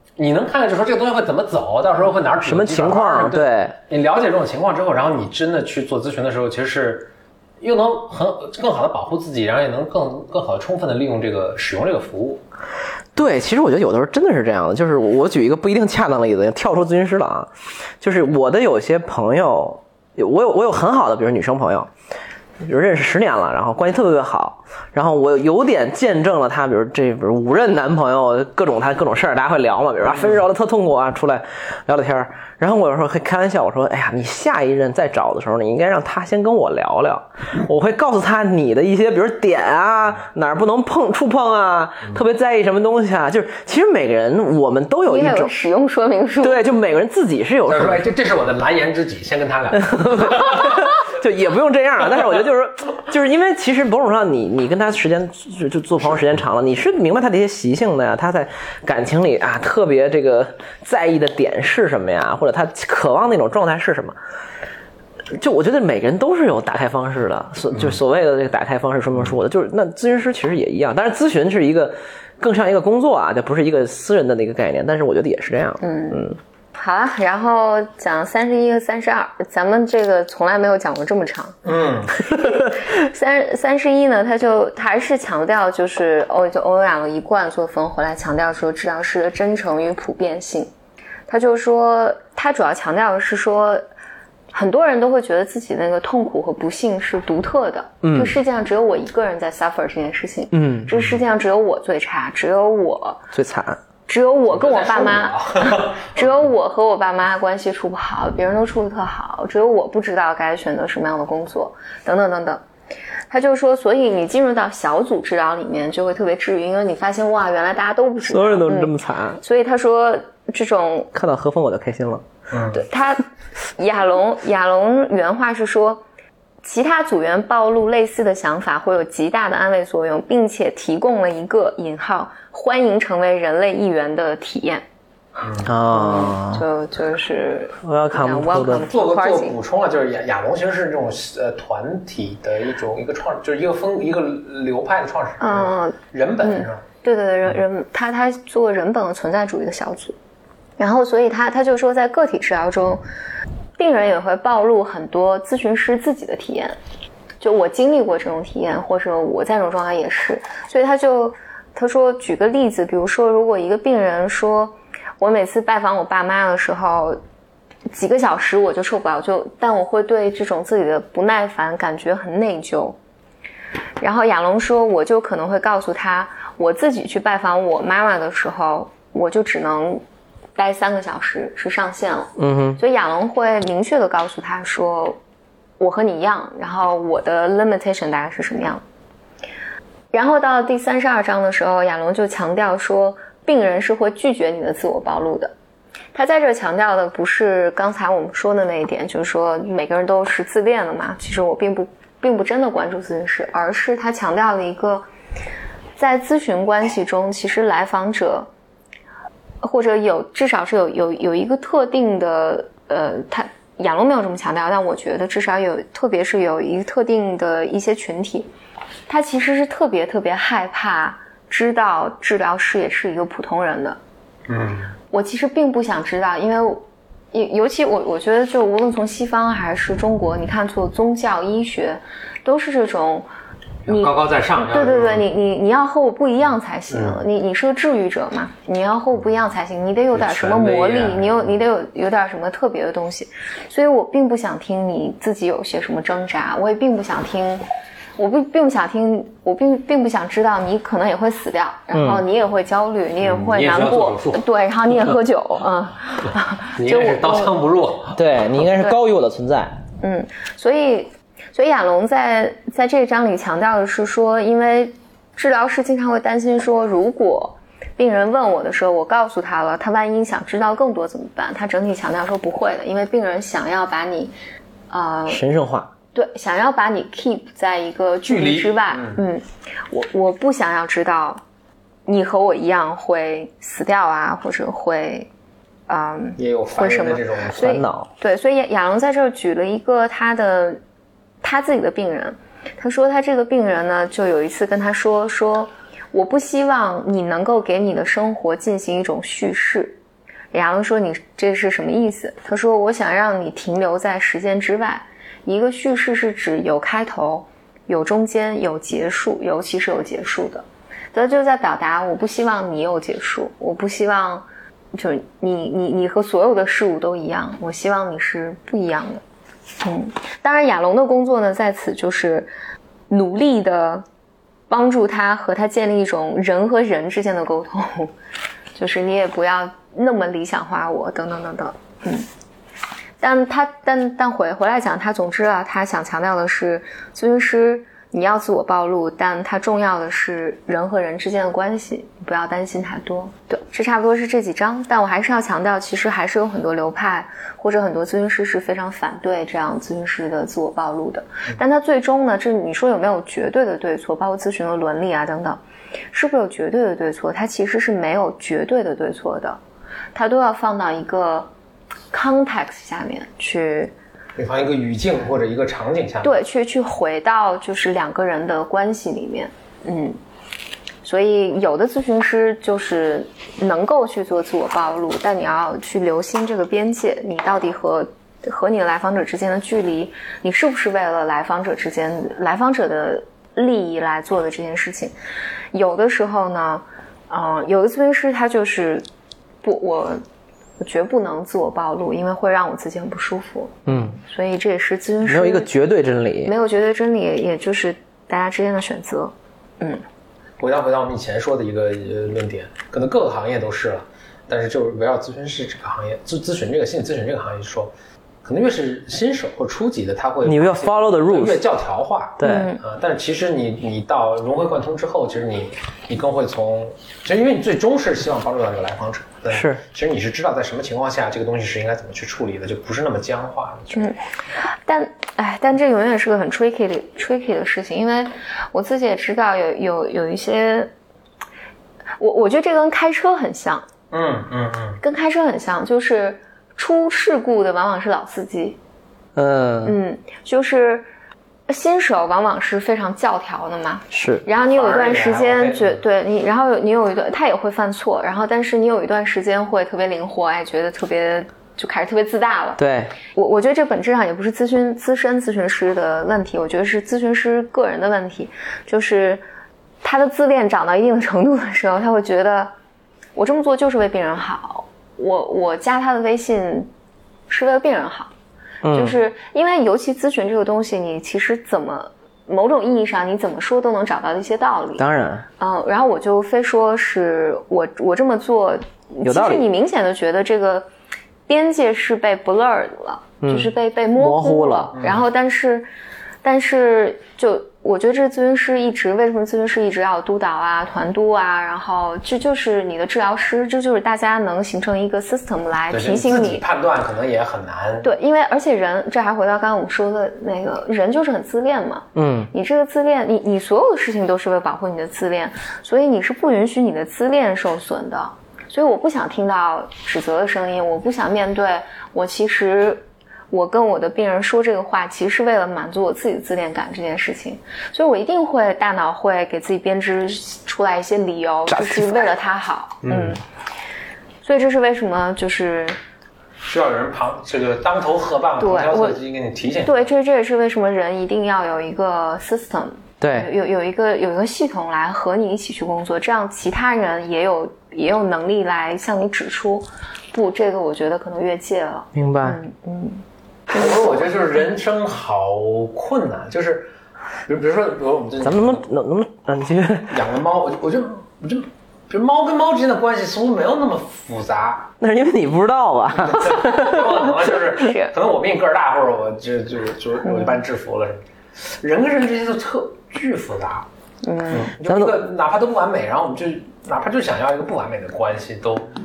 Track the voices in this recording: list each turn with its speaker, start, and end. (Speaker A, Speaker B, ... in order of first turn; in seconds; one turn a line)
Speaker A: 0.2-7.1
Speaker B: 2.5-3.8
Speaker A: 7.6-12.4
Speaker B: 13.2-21.9
Speaker B: 22.6-45.5
Speaker C: 45.1-46.6
Speaker B: 46.4-48.0
Speaker A: 47.7-50.9
Speaker B: 49.7-64.2
Speaker B: 65.3-76.4
Speaker C: 75.8-81.6
Speaker A: 81.7-82.2
Speaker C: 82.2-90.7
Speaker C: 91.3-93.9
Speaker C: 94.5-103.3
Speaker B: 98.0-98.3
Speaker B: 100.5-100.9
Speaker A: 100.9-101.2
Speaker B: 103.3-103.8
Speaker C: 104.1-112.6
Speaker A: 104.5-106.5
Speaker C: 113.3-121.1
Speaker B: 118.3-119.4
Speaker B: 121.1-122.2
Speaker A: 122.5-122.8
Speaker C: 122.7-126.0
Speaker C: 126.6-134.8
Speaker A: 135.4-135.7
Speaker B: 135.7-136.7
Speaker C: 135.9-139.6
Speaker B: 137.8-138.9
Speaker A: 138.9-146.8
Speaker C: 145.4-150.2
Speaker C: 150.8-153.0
Speaker C: 153.8-156.8
Speaker C: 157.4-167.2
Speaker C: 167.9-173.0
Speaker C: 174.0-180.0
Speaker C: 180.6-185.2
Speaker B: 182.4-182.8
Speaker C: 185.8-188.8
Speaker C: 190.1-195.5
Speaker C: 196.2-205.1
Speaker C: 206.0-208.5
Speaker C: 209.6-218.5
Speaker C: 219.1-224.0
Speaker A: 224.5-224.9
Speaker C: 225.1-233.3
Speaker A: 233.9-235.3
Speaker C: 233.9-247.7
Speaker A: 236.9-237.2
Speaker A: 240.1-241.6
Speaker C: 248.2-257.5
Speaker B: 251.9-252.2
Speaker A: 253.2-254.5
Speaker A: 256.8-258.2
Speaker B: 258.1-259.8
Speaker C: 260.0-274.3
Speaker C: 274.9-275.4
Speaker B: 275.3-275.9
Speaker C: 276.1-281.4
Speaker A: 278.3-279.2
Speaker C: 282.1-285.3
Speaker C: 285.9-290.8
Speaker A: 286.4-287.8
Speaker B: 287.6-288.1
Speaker C: 291.4-300.0
Speaker C: 300.5-319.2
Speaker C: 319.8-322.5
Speaker C: 323.1-324.1
Speaker C: 324.7-328.1
Speaker C: 328.8-332.3
Speaker C: 333.2-355.6
Speaker C: 356.1-359.6
Speaker C: 360.1-361.5
Speaker C: 362.1-363.9
Speaker A: 364.4-366.4
Speaker C: 366.2-370.2
Speaker C: 371.0-385.1
Speaker C: 385.7-389.1
Speaker C: 389.6-390.2
Speaker C: 390.8-395.7
Speaker B: 393.9-394.2
Speaker B: 395.3-396.5
Speaker C: 396.4-400.0
Speaker A: 400.6-407.9
Speaker A: 408.4-424.1
Speaker B: 410.4-411.6
Speaker B: 412.4-412.7
Speaker C: 412.4-412.8
Speaker B: 419.5-419.8
Speaker C: 423.9-430.9
Speaker C: 432.2-433.9
Speaker A: 434.1-435.0
Speaker C: 435.0-438.8
Speaker B: 439.4-440.0
Speaker C: 439.8-441.1
Speaker C: 441.7-452.8
Speaker B: 444.1-444.4
Speaker A: 444.7-446.0
Speaker B: 452.8-453.1
Speaker C: 453.3-459.4
Speaker C: 460.0-462.7
Speaker C: 463.4-466.9
Speaker C: 467.5-468.3
Speaker B: 468.8-469.2
Speaker C: 468.9-475.1
Speaker B: 475.0-475.5
Speaker C: 475.6-480.9
Speaker B: 479.2-479.6
Speaker C: 481.5-485.9
Speaker B: 483.4-484.9
Speaker A: 485.0-485.2
Speaker C: 486.4-496.6
Speaker A: 495.9-498.1
Speaker C: 498.0-523.4
Speaker B: 502.2-502.5
Speaker B: 521.7-522.3
Speaker A: 523.0-523.4
Speaker C: 524.4-526.0
Speaker A: 526.6-530.1
Speaker C: 528.6-529.2
Speaker C: 529.8-544.5
Speaker B: 533.2-533.5
Speaker B: 542.1-542.6
Speaker A: 543.7-546.9
Speaker A: 547.5-548.9
Speaker B: 548.4-550.2
Speaker A: 550.1-554.9
Speaker B: 555.0-557.5
Speaker A: 556.1-563.9
Speaker C: 557.8-558.1
Speaker C: 560.2-560.6
Speaker C: 564.2-564.7
Speaker A: 564.5-568.9
Speaker B: 564.8-565.2